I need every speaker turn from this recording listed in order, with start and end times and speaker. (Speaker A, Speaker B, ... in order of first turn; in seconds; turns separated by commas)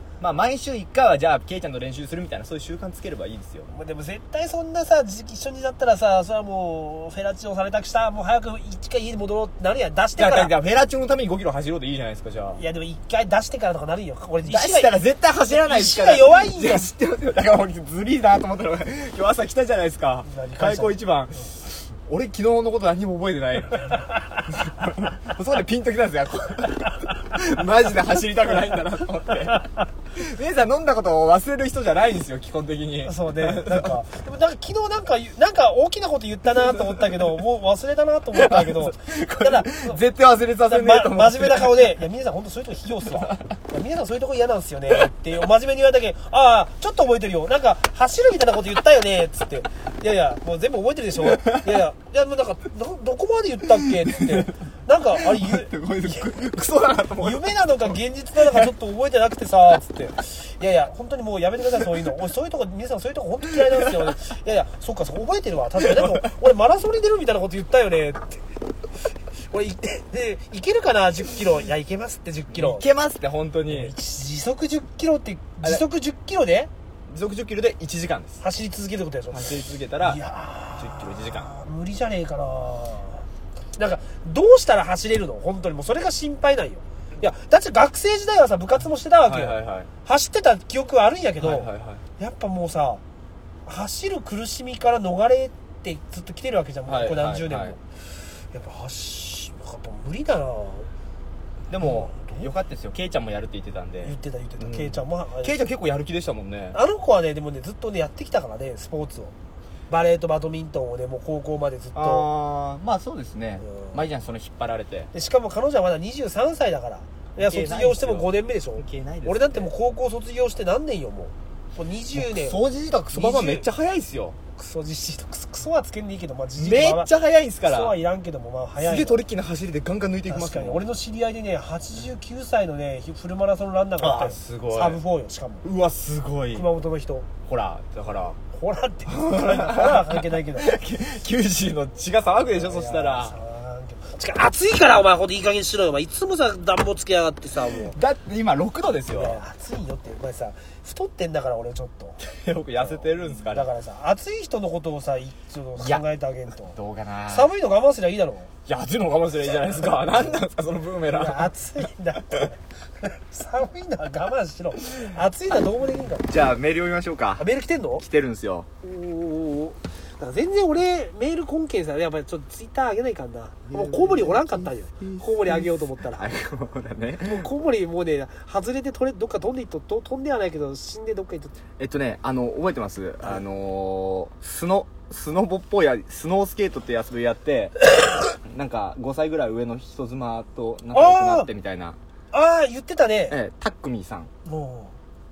Speaker A: 0.2-3.7, Speaker B: 3.7-10.5, Speaker A: 10.2-12.6, Speaker B: 12.6-14.9, Speaker A: 14.5-34.0, Speaker B: 15.5-16.9, Speaker B: 20.3-20.9, Speaker B: 33.0-40.0, Speaker A: 36.7-37.2, Speaker A: 38.3-41.9, Speaker B: 40.6-56.3, Speaker A: 43.1-43.4, Speaker A: 51.2-51.7, Speaker A: 53.8-54.6, Speaker A: 55.2-58.7, Speaker B: 57.2-68.5, Speaker A: 65.8-66.2, Speaker B: 69.5-72.9, Speaker A: 72.5-73.9, Speaker B: 73.7-76.7, Speaker A: 77.1-78.4, Speaker B: 78.4-83.2, Speaker A: 79.3-80.2, Speaker A: 80.8-81.5, Speaker B: 83.8-93.0, Speaker A: 89.2-89.9, Speaker A: 91.4-92.0, Speaker B: 93.7-97.8, Speaker A: 96.9-97.8, Speaker B: 98.5-100.9, Speaker A: 101.7-106.8, Speaker B: 101.8-102.5, Speaker B: 104.0-105.6, Speaker B: 106.7-109.3, Speaker B: 109.9-112.3, Speaker A: 112.0-115.1, Speaker B: 113.6-114.0, Speaker B: 115.1-122.6, Speaker A: 117.4-119.7, Speaker A: 122.1-124.4, Speaker B: 123.1-123.7, Speaker B: 124.6-127.1, Speaker A: 126.6-128.0, Speaker B: 127.6-129.2, Speaker A: 128.8-130.8, Speaker B: 130.3-135.7, Speaker A: 134.0-135.0, Speaker A: 135.6-136.7, Speaker B: 136.5-137.3, Speaker A: 137.4-138.4, Speaker B: 138.5-140.8, Speaker A: 139.1-143.4, Speaker B: 142.5-148.0, Speaker A: 147.6-149.4, Speaker B: 149.1-152.2, Speaker A: 152.2-153.7, Speaker B: 152.8-156.8, Speaker A: 155.8-156.0, Speaker A: 156.7-157.5, Speaker B: 157.3-158.5, Speaker A: 158.7-161.5, Speaker B: 161.1-166.3, Speaker A: 166.3-167.5, Speaker B: 167.4-168.1, Speaker A: 168.0-168.7, Speaker B: 168.8-176.2, Speaker A: 173.7-177.5, Speaker B: 177.2-181.6, Speaker A: 181.8-187.8, Speaker A: 188.4-192.0, Speaker B: 190.9-191.5, Speaker B: 192.3-193.4, Speaker A: 193.3-194.3, Speaker B: 194.4-194.9